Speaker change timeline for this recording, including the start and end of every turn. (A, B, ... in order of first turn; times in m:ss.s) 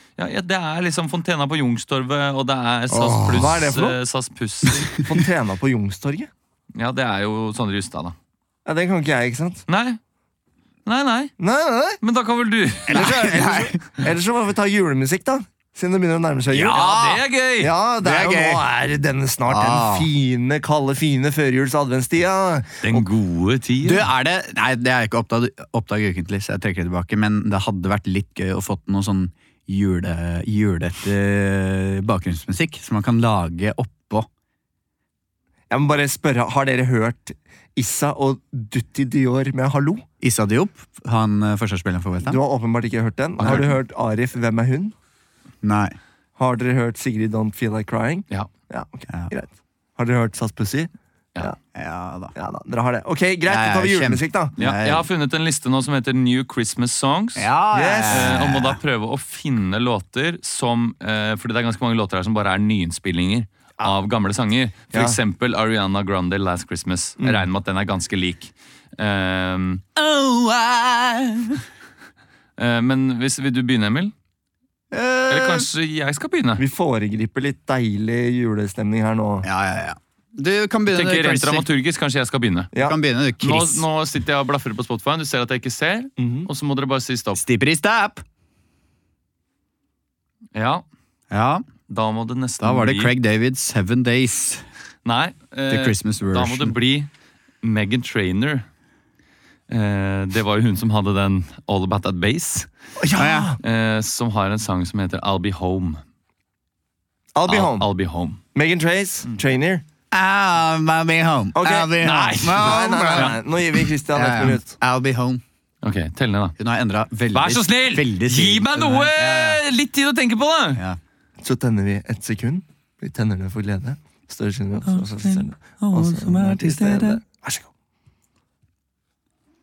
0:00.2-0:05.0 A
0:02.9-0:03.6 B
0:03.2-0:04.0 C
0:05.0-0:06.3 C
0:06.8-0:08.1 A
0:08.6-0:09.6 C
0:09.7-0:10.0 A
0:10.8-0:11.3 A
0:11.4-0:12.0 C
0:12.0-0:13.1 A
0:12.9-0:16.8 C
0:12.9-0:13.8 B
0:16.5-0:17.7 A
0:16.5-0:17.2 B
0:17.6-0:23.1 C
0:18.0-0:18.6 B
0:19.5-0:20.1 B
0:22.8-0:24.0 A
0:23.8-0:34.3 B
0:35.7-0:40.0 C
0:40.2-0:42.4 B
0:42.2-0:44.9 C
0:43.4-0:43.7 B
0:45.6-0:46.0 B
0:46.4-0:51.6 C
0:51.7-0:52.3 B
0:52.3-0:54.5 C
0:53.5-0:55.1 B
0:54.6-0:57.5 A
0:57.4-0:58.8 B
0:57.7-0:58.4 C
0:58.1-1:09.8 A
1:10.0-1:11.6 B
1:12.6-1:14.1 A
1:14.9-1:15.7 B
1:15.3-1:16.6 A
1:16.6-1:19.5 C
1:19.4-1:21.7 B
1:20.9-1:22.7 A
1:22.7-1:23.0 C
1:22.8-1:23.8 B
1:23.4-1:27.4 A
1:26.2-1:26.5 C
1:27.3-1:28.2 B
1:30.5-1:30.8 A
1:31.3-1:31.6 B
1:31.9-1:33.1 A
1:32.6-1:34.6 B
1:35.0-1:37.1 A
1:35.7-1:36.7 B
1:37.6-1:38.6 A
1:39.7-1:42.7 A
1:43.0-1:43.6 C
1:43.1-1:43.6 B
1:43.6-1:46.0 A
1:47.3-1:47.9 C
1:47.5-1:48.4 A
1:48.5-1:49.8 C
1:50.1-1:53.4 B
1:51.5-1:54.7 C
1:52.0-1:53.4 A
1:54.1-1:55.4 B
1:55.8-1:56.5 A
1:56.6-1:59.6 B
1:57.3-2:00.8 A
2:01.4-2:07.7 C
2:04.8-2:07.2 B